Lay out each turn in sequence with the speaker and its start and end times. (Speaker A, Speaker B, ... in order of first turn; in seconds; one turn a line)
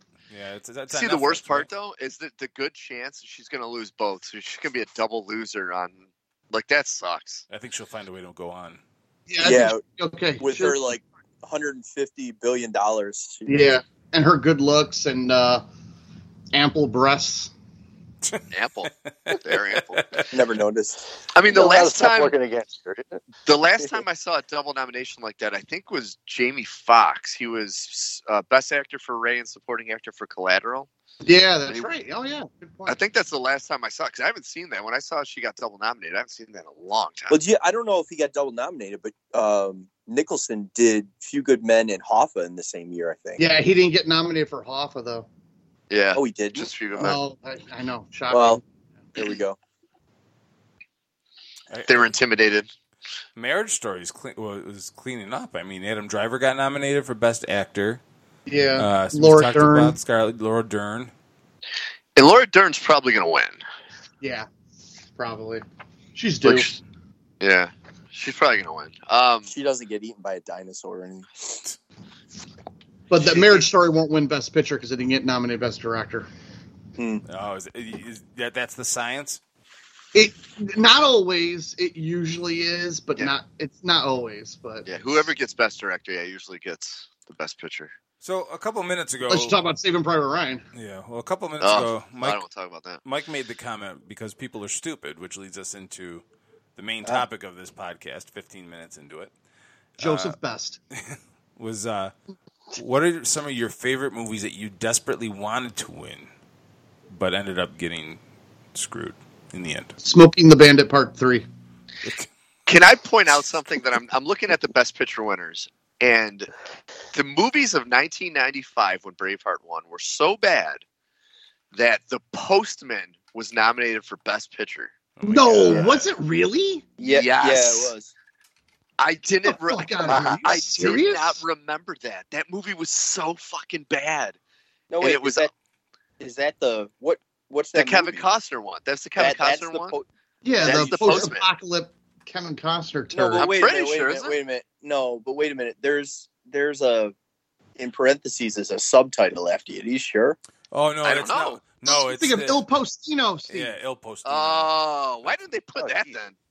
Speaker A: 0.3-1.7
Speaker B: 0.9-7.4
Speaker A: 7.5-8.8
Speaker C: 9.3-10.9
Speaker D: 9.4-9.8
Speaker D: 10.4-13.7
Speaker C: 13.4-15.6
Speaker C: 16.5-17.5
Speaker A: 18.2-20.3
Speaker B: 18.5-20.0
Speaker D: 20.3-21.0
Speaker B: 21.3-22.3
Speaker E: 21.4-23.2
Speaker B: 23.4-30.9
Speaker C: 31.2-33.0
Speaker B: 32.9-37.4
Speaker D: 37.3-43.4
Speaker C: 43.4-45.3
Speaker B: 45.9-47.2
Speaker D: 46.1-46.7
Speaker C: 47.0-48.6
Speaker D: 48.3-48.6
Speaker D: 49.1-49.6
Speaker A: 51.7-52.2
Speaker B: 51.9-52.7
Speaker A: 53.4-58.0
Speaker C: 58.5-60.0
Speaker A: 58.8-61.1
Speaker B: 62.1-63.6
Speaker C: 64.2-64.5
Speaker C: 65.1-65.6
Speaker C: 66.1-66.7
Speaker B: 66.4-66.8
Speaker B: 67.4-69.5
Speaker D: 69.5-71.3
Speaker C: 73.1-76.3
Speaker B: 73.2-73.6
Speaker D: 77.0-77.2
Speaker A: 77.3-79.4
Speaker C: 80.1-85.3
Speaker B: 84.8-87.9
Speaker A: 88.2-89.5
Speaker C: 89.3-90.6
Speaker A: 90.7-92.4
Speaker B: 91.6-93.0
Speaker A: 93.0-96.2
Speaker A: 96.8-99.3
Speaker A: 100.0-100.4
Speaker C: 100.0-100.8
Speaker A: 101.0-102.1
Speaker A: 102.7-106.3
Speaker A: 107.1-108.2
Speaker A: 108.7-109.9
Speaker C: 110.0-111.5
Speaker A: 112.0-112.3
Speaker B: 112.7-116.5
Speaker B: 117.1-120.8
Speaker B: 121.7-124.9
Speaker A: 125.2-126.1
Speaker C: 125.2-126.9
Speaker D: 127.0-128.1
Speaker B: 127.0-127.9
Speaker B: 129.0-134.4
Speaker C: 129.4-131.4
Speaker D: 134.9-135.5
Speaker B: 135.0-135.5
Speaker D: 136.2-138.3
Speaker B: 137.7-139.9
Speaker D: 139.2-140.1
Speaker C: 140.4-143.5
Speaker B: 140.6-141.5
Speaker D: 140.6-141.3
Speaker D: 143.1-147.1
Speaker B: 143.3-144.3
Speaker D: 147.8-150.4
Speaker A: 150.7-152.6
Speaker B: 151.0-151.6
Speaker C: 151.8-153.8
Speaker A: 153.5-154.7
Speaker B: 154.2-156.3
Speaker E: 155.8-156.1